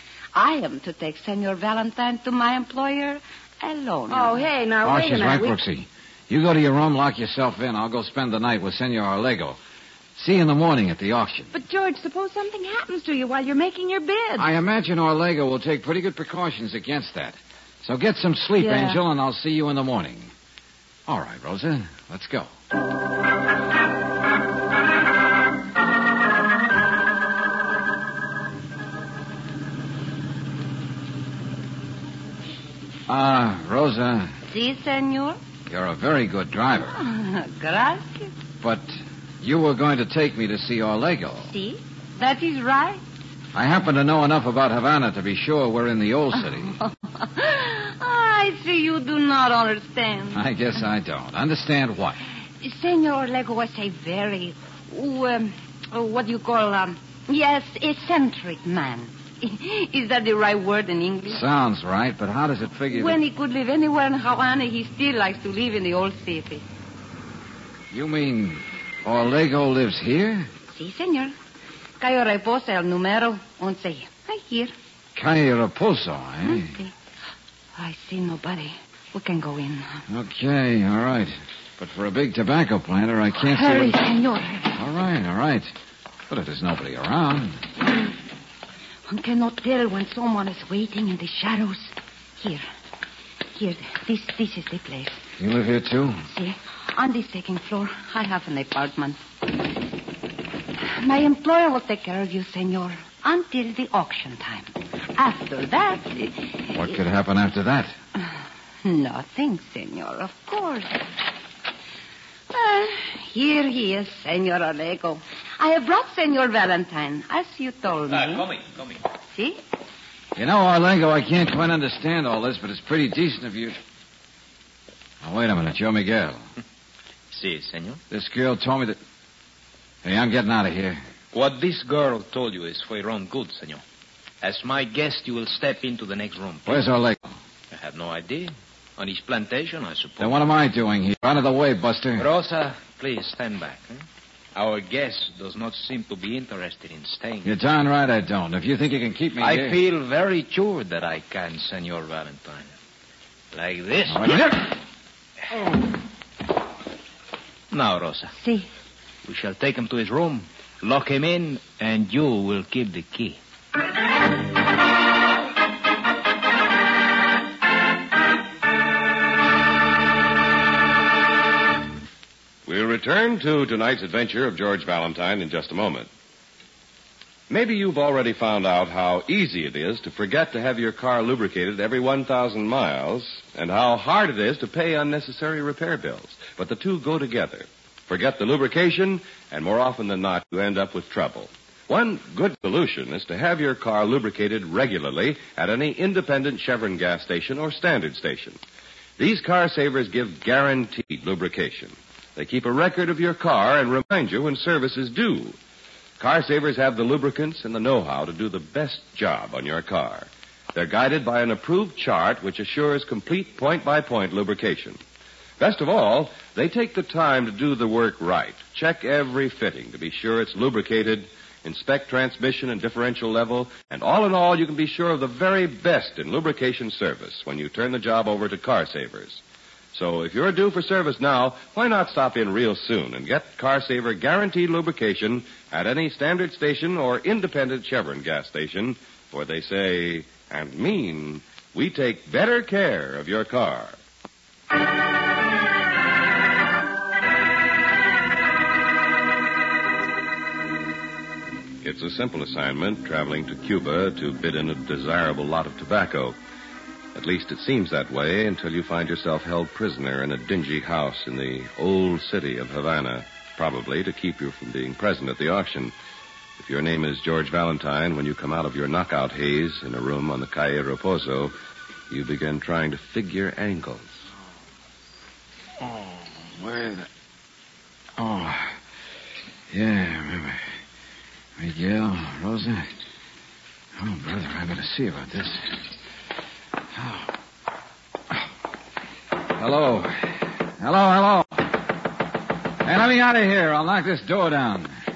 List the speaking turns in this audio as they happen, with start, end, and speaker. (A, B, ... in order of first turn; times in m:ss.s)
0:00.3-0:04.4 A
0:04.1-0:05.6 B
0:04.8-0:09.6 C
0:10.2-0:11.5 C
0:11.5-0:14.5 B
0:14.4-0:20.3 C
0:18.6-0:19.0 B
0:21.1-0:22.5 C
0:33.1-0:34.4 C
0:34.5-0:35.4 A
0:35.7-0:37.0 C
0:36.9-0:38.3 A
0:38.6-0:41.5 C
0:41.4-0:43.0 A
0:43.5-0:46.8 C
0:46.7-0:50.4 A
0:50.3-0:52.2 C
0:52.6-1:01.4 A
1:01.3-1:03.2 C
1:02.9-1:06.6 A
1:07.9-1:10.5 C
1:10.7-1:11.3 A
1:12.0-1:14.7 A
1:15.2-1:16.8 C
1:16.4-1:16.9 A
1:17.8-1:20.0 A
1:20.1-1:24.0 C
1:23.4-1:24.8 A
1:24.7-1:25.7 C
1:26.3-1:27.6 C
1:29.1-1:32.7 A
1:33.5-1:35.2 A
1:35.4-1:36.2 C
1:36.3-1:39.7 A
1:40.8-1:46.8 A
1:46.7-1:48.0 C
1:48.8-1:51.2 A
1:52.5-1:58.6 A
1:58.1-1:59.0 D
1:59.3-1:59.6 A
2:00.4-2:03.8 C
2:05.2-2:06.4 C
2:07.3-2:08.0 D
2:08.1-2:09.0 C
2:10.0-2:11.0 C
2:11.3-2:13.8 D
2:14.4-2:16.9 D
2:16.7-2:17.4 C
2:17.7-2:20.5 D
2:20.2-2:22.3 C
2:22.2-2:27.5 D
2:27.4-2:29.8 C
2:29.4-2:32.7 D
2:33.5-2:34.7 D
2:34.1-2:34.5 C
2:37.7-2:38.4 D
2:38.4-2:38.7 A
2:39.2-2:43.4 D
2:52.7-2:56.1 E
2:57.5-3:18.6 E
3:19.2-3:25.6 E
3:26.2-3:35.0 E
3:35.6-3:49.4 E
3:49.9-4:04.0 E
4:11.8-4:16.4 E
4:17.2-4:25.9 E
4:26.6-4:31.5 E
4:32.1-4:34.2 E
4:35.8-4:37.1 C
4:38.2-4:38.8 C
4:39.7-4:40.6 C
4:41.6-4:42.9 C
4:44.0-4:45.8 C
4:46.9-4:47.3 C
4:49.5-4:51.8 C
4:52.8-4:54.9 C